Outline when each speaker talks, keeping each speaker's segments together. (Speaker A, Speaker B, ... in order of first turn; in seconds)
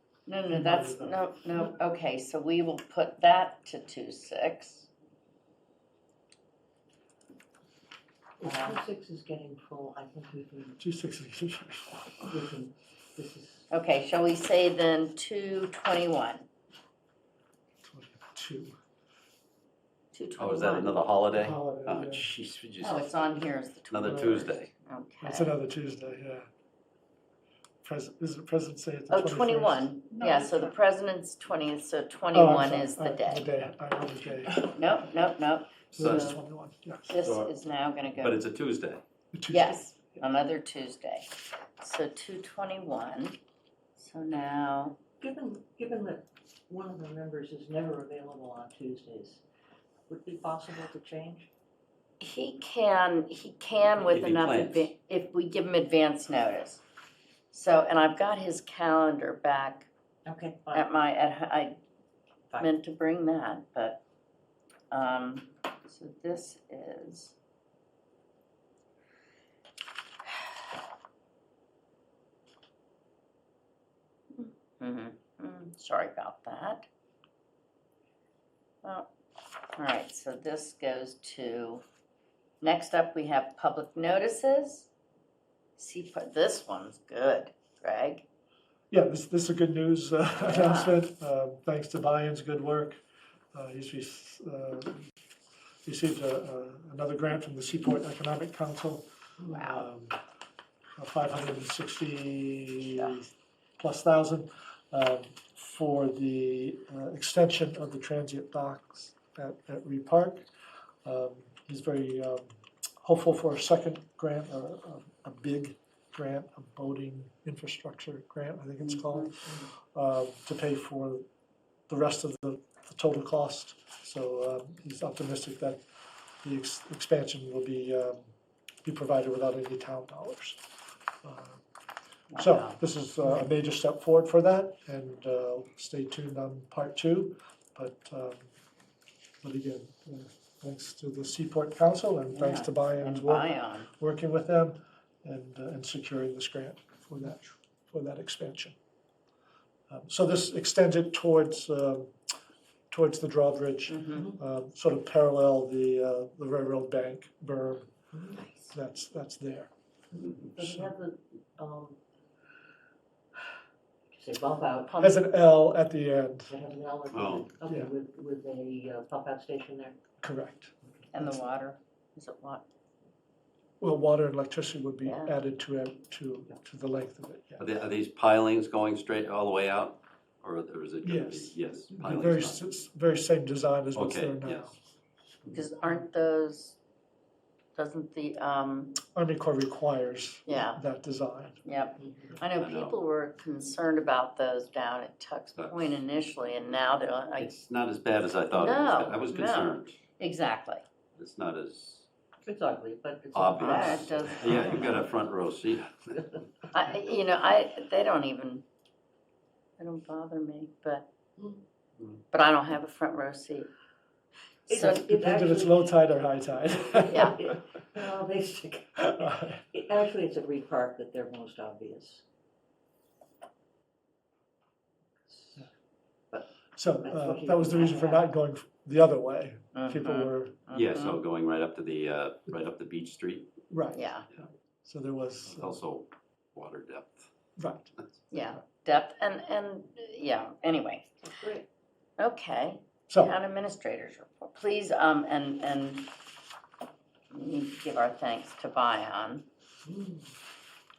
Speaker A: 0.3-4.9, 13.7-16.4, 20.1-20.9, 22.8-25.5, 29.1-33.5, 34.5-36.4, 37.1-38.4, 39.5-41.3, 41.8-43.4, 44.0-45.0, 52.2-56.8, 57.5-59.9, 60.7-61.8, 62.6-64.0, 64.9-67.3, 74.3-76.8, 78.8-79.1, 79.7-81.8, 82.6-84.9, 85.8-88.2, 90.4-91.0, 99.5-99.9, 132.3-132.8, 142.3-143.9, 153.9-154.3, 158.3-158.7, 164.9-165.2, 171.1-172.6, 175.0-175.3, 185.5-186.8, 187.7-189.0, 190.4-190.8, 191.6-197.5, 198.5-200.8, 203.6-205.0, 206.7-208.6, 209.8-211.1, 212.3-213.7, 214.7-215.0, 229.7-231.2, 233.9-234.3, 238.3-241.1, 242.2-246.1, 247.3-249.4
Speaker B: 0.5-1.3, 8.4-8.8, 10.8-12.4, 17.8-18.7, 21.3-22.3, 24.1-24.4, 25.2-26.5, 27.8-29.9, 32.3-35.0, 35.9-37.3, 39.3-39.8, 88.9-93.0, 93.5-95.0, 95.8-100.2, 101.0-110.5, 111.0-121.2, 121.9-125.8, 126.4-128.3, 128.8-130.6, 131.2-131.6, 132.3-138.5, 139.4-148.8, 149.9-152.2, 152.9-157.9, 158.7-159.7, 160.6-160.9, 165.0-166.6, 167.6-167.9, 170.2-171.4, 173.8-177.7, 181.0-184.8, 189.1-191.6, 214.7-217.6, 219.0-219.6, 226.7-230.6, 233.7-235.8, 237.6-237.9, 243.1-243.3
Speaker C: 8.4-10.8, 12.3-13.6, 45.2-49.4, 50.1-51.5, 60.2-60.9, 158.1-158.4, 160.5-162.0, 164.1-165.0, 166.5-170.0, 192.0-192.4, 202.4-204.8, 211.4-211.6, 214.7-215.9, 216.9-222.2, 225.2-225.6, 227.0-228.3, 241.2-241.7, 249.8-250.3
Speaker D: 20.4-24.7, 36.0-36.4, 37.1-37.5, 38.1-39.0, 54.0-54.9, 160.2-160.5, 167.1-167.5, 177.6-182.6, 183.9-184.7, 192.6-192.9, 195.5-196.0, 197.4-200.0, 201.2-202.1, 203.3-206.2, 230.7-233.5, 235.5-237.3